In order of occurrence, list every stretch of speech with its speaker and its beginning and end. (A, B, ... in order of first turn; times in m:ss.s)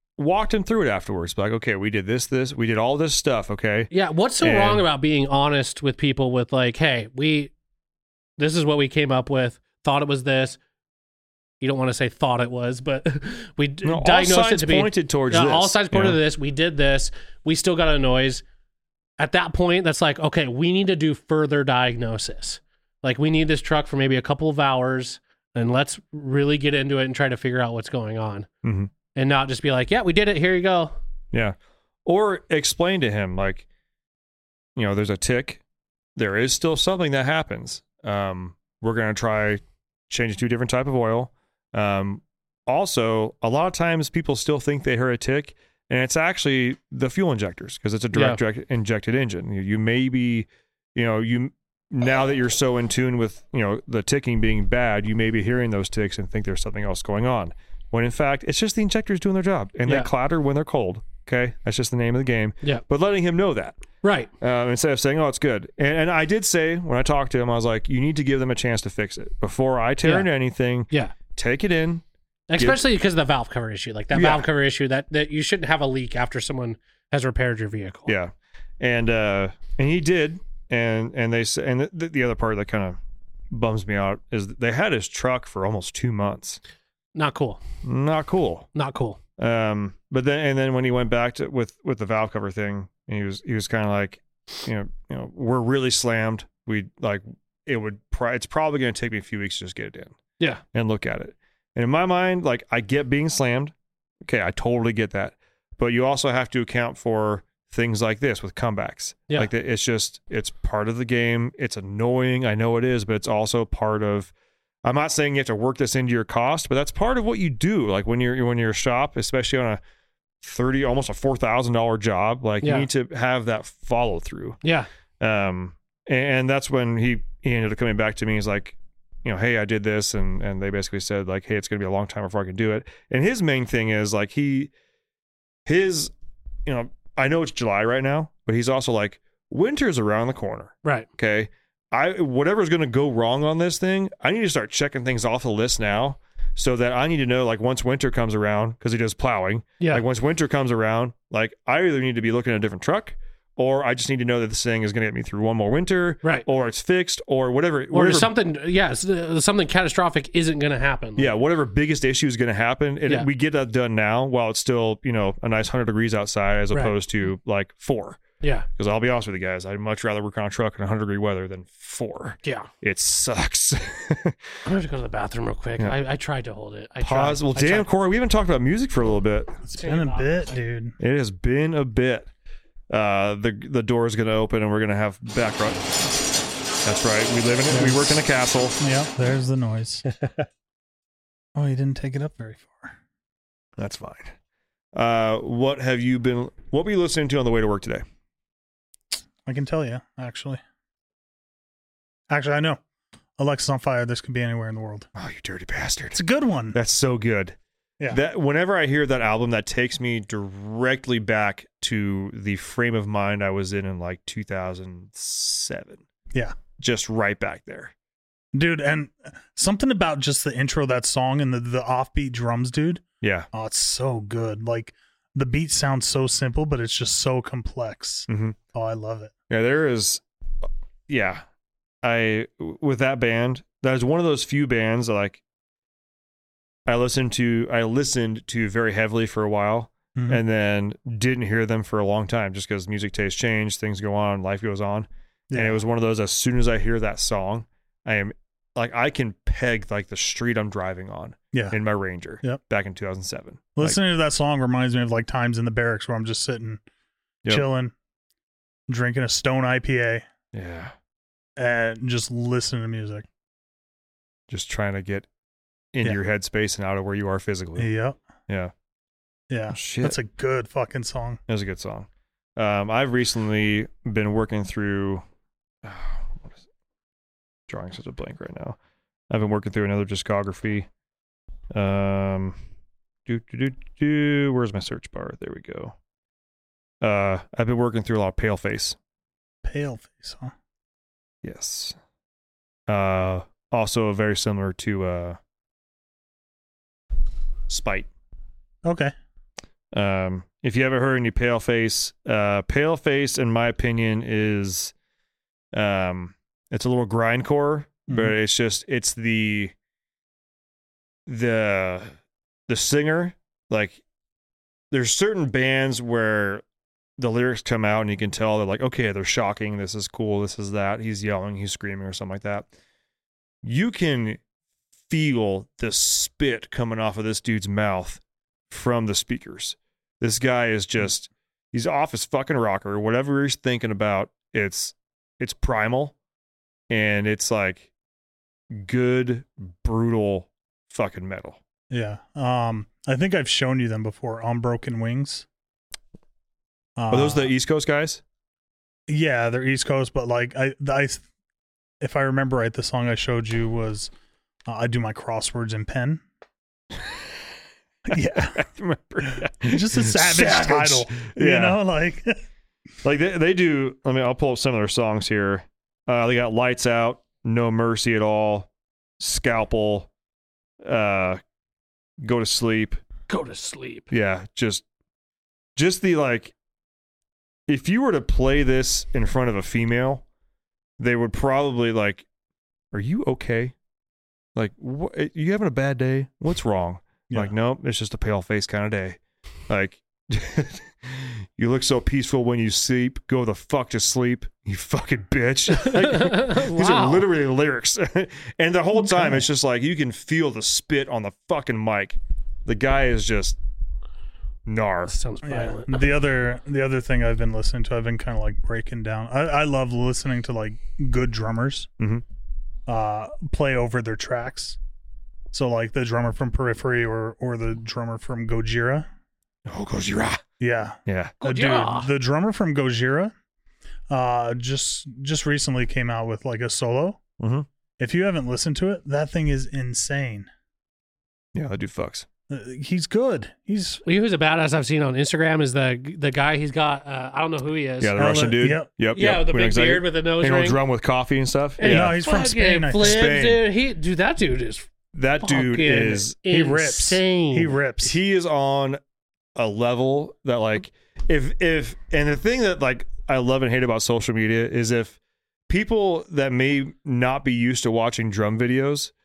0:00.2-0:04.8 A
0:03.9-0:07.5 B
0:08.4-0:10.6 B
0:11.6-0:18.4 B
0:13.8-0:16.2 A
0:19.2-0:28.5 B
0:28.6-0:28.9 A
0:29.1-0:31.0 B
0:31.3-0:33.6 A
0:34.8-0:35.6 A
0:36.2-1:03.8 A
0:48.1-0:48.4 B
1:04.0-1:04.3 B
1:04.4-1:12.0 A
1:12.5-1:18.2 B
1:14.1-1:14.5 A
1:18.1-1:23.0 A
1:23.5-1:26.6 A
1:27.2-1:27.6 B
1:27.8-1:28.7 A
1:28.8-1:29.2 B
1:29.4-1:40.2 A
1:40.7-1:43.7 A
1:44.2-1:54.3 A
1:54.8-1:59.8 A
2:00.4-2:04.6 A
2:02.6-2:02.9 B
2:04.6-2:04.9 B
2:05.2-2:14.7 A
2:15.7-2:16.1 A
2:16.7-2:38.3 A
2:37.9-2:41.3 B
2:41.2-2:48.2 A
2:48.4-2:48.7 B
2:48.8-2:54.4 A
2:54.6-2:57.9 B
2:57.0-2:59.6 A
2:59.6-3:01.0 C
2:59.7-3:00.5 B
3:01.0-3:02.3 A
3:02.9-3:06.2 A
3:06.8-3:08.8 A
3:07.7-3:08.0 C
3:08.8-3:10.0 C
3:11.6-3:13.0 C
3:13.8-3:14.3 A
3:14.9-3:18.0 A
3:19.5-3:20.6 C
3:22.3-3:22.8 C
3:23.4-3:25.1 C
3:25.2-3:26.2 A
3:26.1-3:26.8 C
3:26.7-3:27.6 A
3:28.1-3:36.0 A
3:36.8-3:37.9 A
3:38.5-3:49.3 C
3:43.2-3:43.5 A
3:48.3-3:48.6 A
3:49.5-3:50.2 A
3:51.1-3:51.4 A
3:52.0-3:55.4 A
3:56.9-4:14.0 A
4:00.2-4:00.4 C
4:05.5-4:05.8 C
4:13.8-4:16.8 C
4:17.5-4:17.9 C
4:18.9-4:20.2 C
4:20.5-4:20.9 A
4:21.6-4:23.2 C
4:24.5-4:25.3 A
4:25.9-4:27.9 A
4:27.8-4:28.2 C
4:29.5-4:31.4 C
4:29.7-4:30.2 A
4:31.5-4:35.2 A
4:35.8-4:36.6 A
4:37.7-4:38.8 A
4:39.3-4:40.9 A
4:41.7-4:42.6 A
4:43.3-4:45.9 A
4:47.0-4:49.0 A
4:49.6-4:50.5 C
4:51.4-4:52.0 A
4:52.9-4:55.4 A
4:57.7-4:58.1 A
4:58.8-4:59.1 C
4:59.9-5:04.9 A
5:05.7-5:09.7 A
5:08.1-5:08.3 C
5:11.3-5:12.1 A
5:12.7-5:14.0 A
5:14.9-5:16.6 A
5:17.2-5:22.7 A
5:23.6-5:24.4 A
5:25.1-5:36.2 A
5:36.9-5:37.9 A
5:38.7-5:41.6 A
5:41.9-5:45.5 C
5:47.0-5:47.5 C
5:47.1-5:48.2 A
5:49.1-5:51.2 C
5:52.0-5:54.1 C
5:54.7-5:56.2 C
5:58.1-5:58.6 C
5:58.1-6:01.8 A
5:59.6-6:02.4 C
6:03.0-6:08.7 A
6:09.2-6:10.1 A
6:10.8-6:11.4 A
6:12.2-6:13.0 A
6:13.3-6:14.1 B
6:14.1-6:14.8 A
6:15.8-6:16.5 A
6:17.7-6:20.2 A
6:21.0-6:22.2 A
6:22.9-6:23.7 A
6:24.6-6:43.6 A
6:35.8-6:37.3 B
6:39.0-6:39.4 C
6:44.7-6:45.1 A
6:45.1-6:46.1 B
6:45.4-6:51.9 C
6:52.9-6:54.8 C
6:55.5-6:59.1 C
6:59.7-7:00.4 A
7:00.6-7:03.3 C
7:01.1-7:01.4 A
7:01.4-7:02.1 B
7:04.1-7:07.2 C
7:07.4-7:07.7 A
7:08.0-7:10.5 C
7:11.6-7:12.3 A
7:12.5-7:14.0 C
7:14.0-7:18.4 B
7:18.0-7:22.2 A
7:18.2-7:18.9 C
7:19.1-7:20.8 B
7:21.8-7:24.9 B
7:21.8-7:23.2 C
7:23.0-7:23.6 A
7:25.1-7:26.4 A
7:25.4-7:27.8 B
7:26.5-7:28.2 C
7:28.0-7:29.0 A
7:29.6-7:35.2 A
7:35.7-7:39.1 A